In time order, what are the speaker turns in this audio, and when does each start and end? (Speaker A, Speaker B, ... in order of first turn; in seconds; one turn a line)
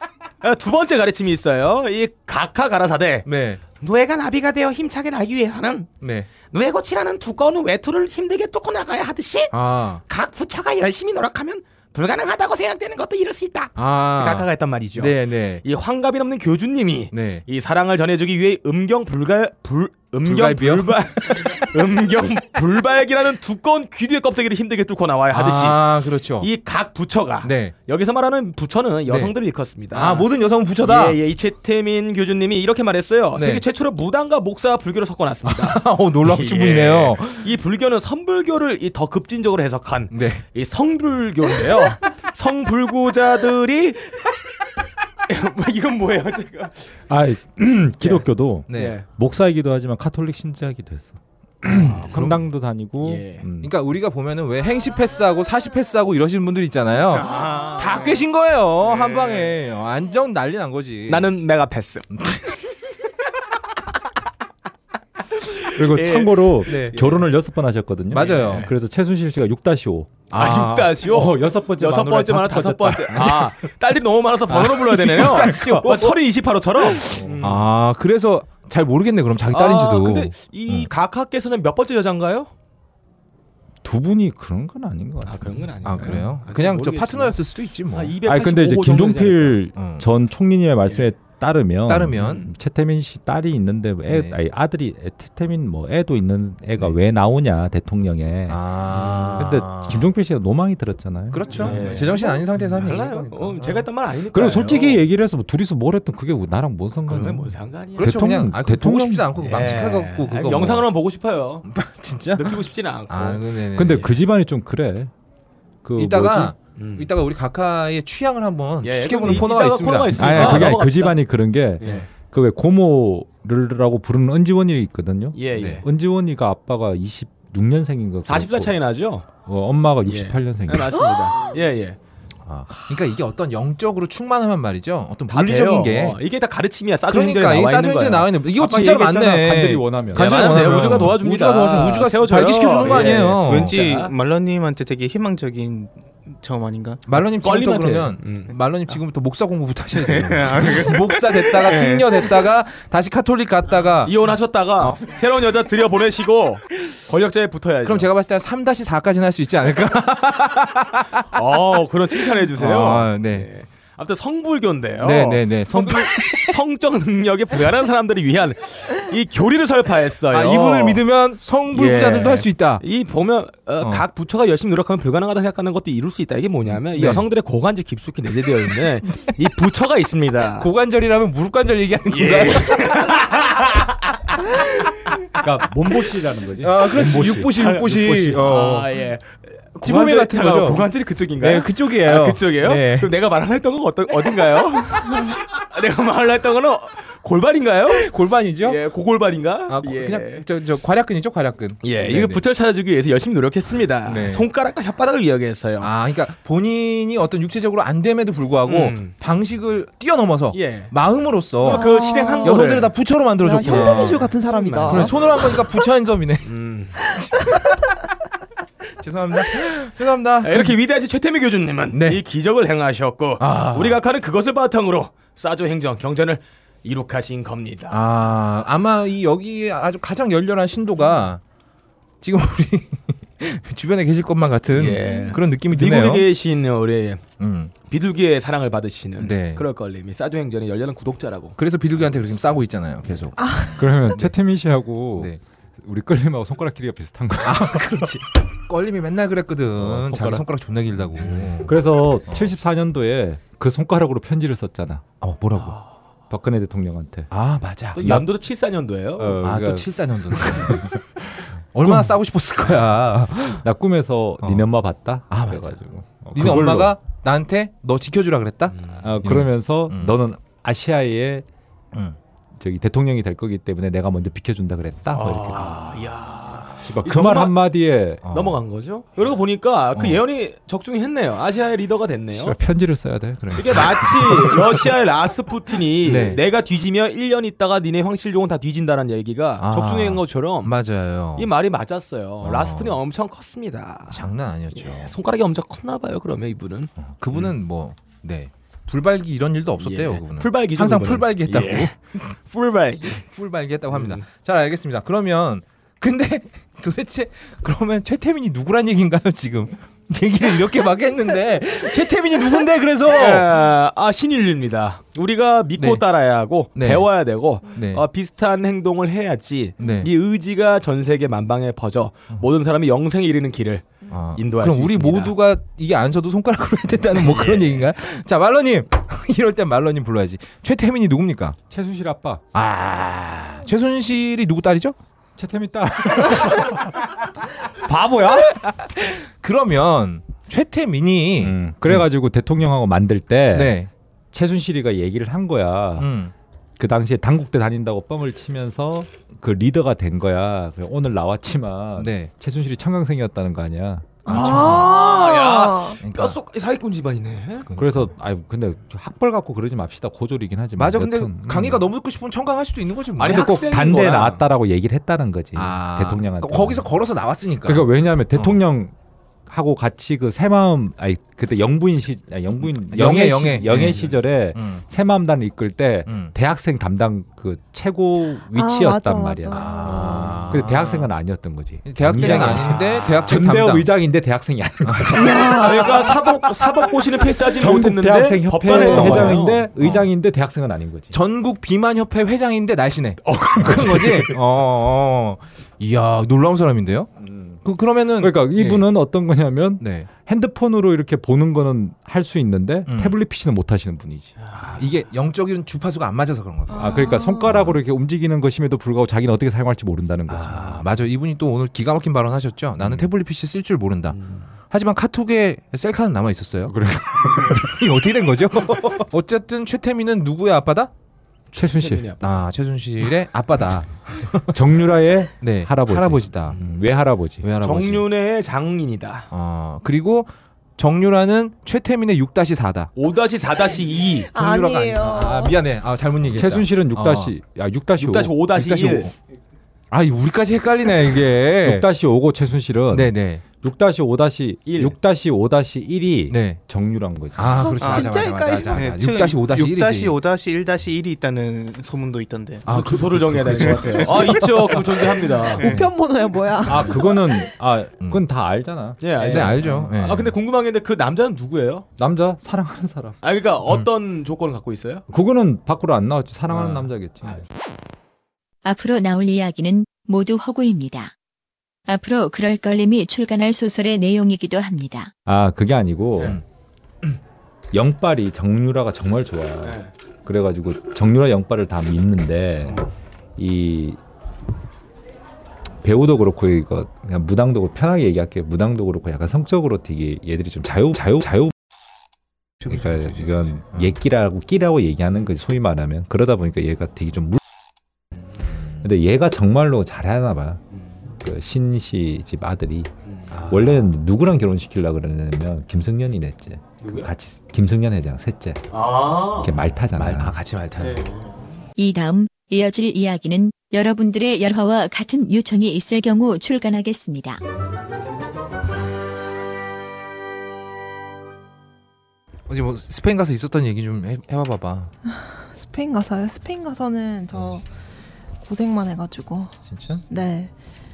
Speaker A: 0.4-3.3
Speaker B: 3.3-3.6
Speaker A: 3.8-5.9
Speaker B: 6.0-6.3
Speaker A: 6.5-9.5
Speaker B: 9.5-10.0
Speaker A: 10.1-44.3
Speaker B: 13.8-15.6
Speaker B: 17.1-17.4
Speaker B: 20.2-21.7
Speaker B: 25.3-26.5
Speaker B: 27.4-27.7
Speaker B: 29.9-31.2
Speaker B: 33.4-33.6
Speaker B: 35.5-37.5
Speaker B: 40.1-40.4
Speaker A: 45.2-46.9
Speaker C: 47.1-53.7
Speaker B: 48.7-49.0
Speaker A: 48.7-49.0
Speaker A: 51.7-52.5
Speaker A: 53.0-53.5
Speaker B: 53.6-61.3
Speaker A: 57.1-58.2
Speaker A: 58.8-59.5
Speaker A: 61.1-62.1
Speaker A: 65.4-67.3
Speaker C: 65.7-70.3
Speaker B: 66.7-66.9
Speaker B: 68.1-68.7
Speaker A: 68.2-68.7
Speaker B: 70.3-71.0
Speaker A: 70.3-77.7
Speaker C: 71.0-73.5
Speaker B: 74.5-76.2
Speaker C: 75.3-75.7
Speaker B: 76.9-80.3
Speaker A: 79.5-82.5
Speaker C: 83.8-86.2
Speaker A: 85.2-87.4
Speaker B: 85.8-88.1
Speaker A: 87.9-89.6
Speaker C: 88.3-98.6
Speaker B: 89.8-90.1
Speaker B: 91.9-92.5
Speaker B: 94.1-94.3
Speaker B: 98.5-100.1
Speaker A: 98.9-99.5
Speaker C: 99.4-101.9
Speaker B: 101.3-103.8
Speaker A: 101.5-105.0
Speaker C: 104.3-109.6
Speaker A: 107.1-108.1
Speaker B: 108.0-110.9
Speaker A: 109.4-111.7
Speaker B: 111.7-114.1
Speaker A: 112.3-113.5
Speaker C: 113.8-115.1
Speaker C: 115.8-116.5
Speaker B: 116.0-120.8
Speaker A: 116.8-117.1
Speaker A: 118.8-121.2
Speaker C: 120.2-128.7
Speaker A: 121.8-122.1
Speaker A: 125.4-125.8
Speaker B: 125.5-125.8
Speaker A: 128.2-129.3
Speaker C: 129.4-131.1
Speaker A: 130.1-132.0
Speaker B: 132.5-136.2
Speaker A: 135.3-138.3
Speaker B: 137.1-143.7
Speaker C: 138.6-141.0
Speaker A: 140.2-144.1
Speaker D: 142.9-147.0
Speaker B: 147.1-154.2
Speaker A: 147.1-148.5
Speaker A: 150.1-152.4
Speaker A: 154.0-158.1
Speaker B: 154.8-155.1
Speaker B: 157.8-161.3
Speaker A: 161.3-171.0
Speaker B: 162.2-163.5
Speaker B: 165.0-166.5
Speaker B: 170.3-172.8
Speaker A: 171.7-180.7
Speaker B: 176.7-177.2
Speaker B: 180.6-183.1
Speaker A: 182.1-183.9
Speaker C: 185.3-188.3
Speaker B: 186.6-188.9
Speaker A: 187.5-198.1
Speaker B: 189.8-193.1
Speaker B: 197.9-198.8
Speaker A: 198.6-200.5
Speaker B: 199.7-202.4
Speaker A: 201.8-205.9
Speaker B: 204.1-204.5
Speaker B: 205.8-211.9
Speaker A: 208.7-209.1
Speaker A: 210.5-210.9
Speaker A: 211.6-212.9
Speaker E: 211.7-212.7
Speaker B: 212.4-216.5
Speaker E: 213.4-215.6
Speaker A: 213.7-215.4
Speaker A: 216.4-217.0
Speaker B: 219.0-220.7
Speaker A: 220.4-228.0
Speaker B: 221.9-222.2
Speaker B: 223.4-224.0
Speaker B: 227.9-231.4
Speaker B: 232.2-236.3
Speaker A: 234.7-237.2
Speaker E: 235.0-235.3
Speaker B: 237.4-237.7
Speaker A: 237.9-241.6
Speaker B: 239.2-239.6
Speaker B: 241.6-243.5
Speaker E: 243.4-243.8
Speaker C: 243.7-248.2
Speaker B: 247.4-252.5
Speaker C: 249.8-250.5
Speaker C: 251.2-255.1
Speaker B: 255.2-255.8
Speaker C: 256.3-257.3
Speaker B: 257.3-258.2
Speaker A: 258.0-259.4
Speaker C: 259.2-261.1
Speaker B: 259.4-263.6
Speaker C: 261.8-262.2
Speaker C: 263.5-267.0
Speaker B: 264.4-264.7
Speaker B: 265.3-265.8
Speaker B: 266.3-270.2
Speaker A: 268.7-269.0
Speaker C: 269.0-271.5
Speaker C: 272.6-276.0
Speaker A: 275.1-277.6
Speaker C: 276.9-278.2
Speaker B: 278.3-278.6
Speaker A: 278.3-282.6
Speaker B: 279.9-280.2
Speaker C: 282.3-284.8
Speaker A: 283.6-290.7
Speaker B: 286.0-286.4
Speaker B: 289.6-291.5
Speaker A: 291.4-296.9
Speaker B: 292.4-293.0
Speaker B: 294.1-295.1
Speaker B: 297.0-302.3
Speaker A: 299.8-303.2
Speaker B: 303.1-313.5
Speaker A: 303.9-304.2
Speaker A: 313.1-325.3
Speaker B: 315.8-316.0
Speaker B: 316.8-317.1
Speaker B: 317.6-318.0
Speaker B: 319.8-320.1
Speaker B: 324.1-331.6
Speaker A: 327.1-327.9
Speaker C: 331.7-332.4
Speaker B: 332.5-335.0
Speaker C: 335.4-338.5
Speaker B: 338.6-342.0
Speaker C: 341.4-343.8
Speaker B: 343.5-343.9
Speaker C: 344.3-346.1
Speaker B: 346.0-346.3
Speaker C: 346.8-354.3
Speaker B: 352.0-352.3
Speaker B: 354.3-354.9
Speaker E: 354.3-356.0
Speaker A: 354.3-357.7
Speaker B: 356.0-356.4
Speaker B: 357.7-358.1
Speaker C: 357.8-361.9
Speaker B: 360.8-363.5
Speaker A: 363.2-364.4
Speaker C: 363.2-366.9
Speaker B: 365.6-368.6
Speaker C: 367.6-368.9
Speaker C: 369.5-391.2
Speaker B: 372.9-374.8
Speaker B: 376.1-376.3
Speaker E: 378.5-380.4
Speaker B: 379.6-381.1
Speaker B: 381.9-383.9
Speaker A: 382.2-382.8
Speaker B: 384.9-385.2
Speaker A: 385.2-389.7
Speaker E: 385.2-386.1
Speaker B: 388.7-390.1
Speaker E: 388.8-389.0
Speaker B: 391.1-397.1
Speaker C: 393.3-394.4
Speaker C: 397.2-397.6
Speaker B: 397.6-398.9
Speaker C: 398.2-404.4
Speaker B: 399.8-400.1
Speaker B: 402.9-403.2
Speaker B: 404.6-406.9
Speaker E: 406.7-407.5
Speaker C: 406.7-410.9
Speaker B: 407.5-407.8
Speaker B: 410.3-420.9
Speaker C: 412.8-413.1
Speaker A: 414.1-414.5
Speaker C: 416.7-417.7
Speaker A: 421.5-422.3
Speaker C: 421.6-422.1
Speaker B: 422.2-424.5
Speaker C: 424.5-427.5
Speaker B: 425.4-426.6
Speaker B: 427.4-428.0
Speaker A: 427.6-429.3
Speaker B: 429.3-432.9
Speaker A: 433.0-434.3
Speaker E: 434.3-435.6
Speaker B: 434.4-437.3
Speaker C: 436.3-438.4
Speaker A: 438.0-439.1
Speaker B: 438.6-439.1
Speaker B: 439.9-441.9
Speaker C: 441.6-447.8
Speaker B: 442.9-443.4
Speaker A: 444.7-444.9
Speaker B: 446.3-446.6
Speaker B: 447.4-450.1
Speaker E: 447.6-448.9
Speaker D: 447.8-448.1
Speaker D: 448.7-452.6
Speaker B: 452.6-454.5
Speaker A: 452.7-455.7
Speaker E: 455.6-457.3
Speaker C: 456.6-459.9
Speaker A: 459.0-461.9
Speaker B: 459.2-460.3
Speaker C: 462.0-463.2
Speaker A: 463.2-465.1
Speaker C: 465.1-467.4
Speaker F: 468.6-471.1
Speaker F: 471.9-475.1
Speaker C: 475.3-476.4
Speaker C: 477.7-482.9
Speaker A: 479.6-479.9
Speaker C: 483.4-484.0
Speaker C: 485.8-491.5
Speaker B: 492.6-493.9
Speaker C: 492.7-497.4
Speaker C: 498.8-500.6
Speaker C: 501.2-502.9
Speaker B: 503.3-503.7
Speaker C: 503.4-508.8
Speaker A: 506.8-507.1
Speaker A: 508.7-509.5
Speaker C: 509.4-510.4
Speaker B: 509.9-511.1
Speaker A: 510.8-511.1
Speaker F: 511.8-517.4
Speaker B: 522.5-524.9
Speaker E: 525.1-527.6
Speaker E: 528.5-529.6
Speaker B: 529.7-530.0
Speaker E: 530.1-530.5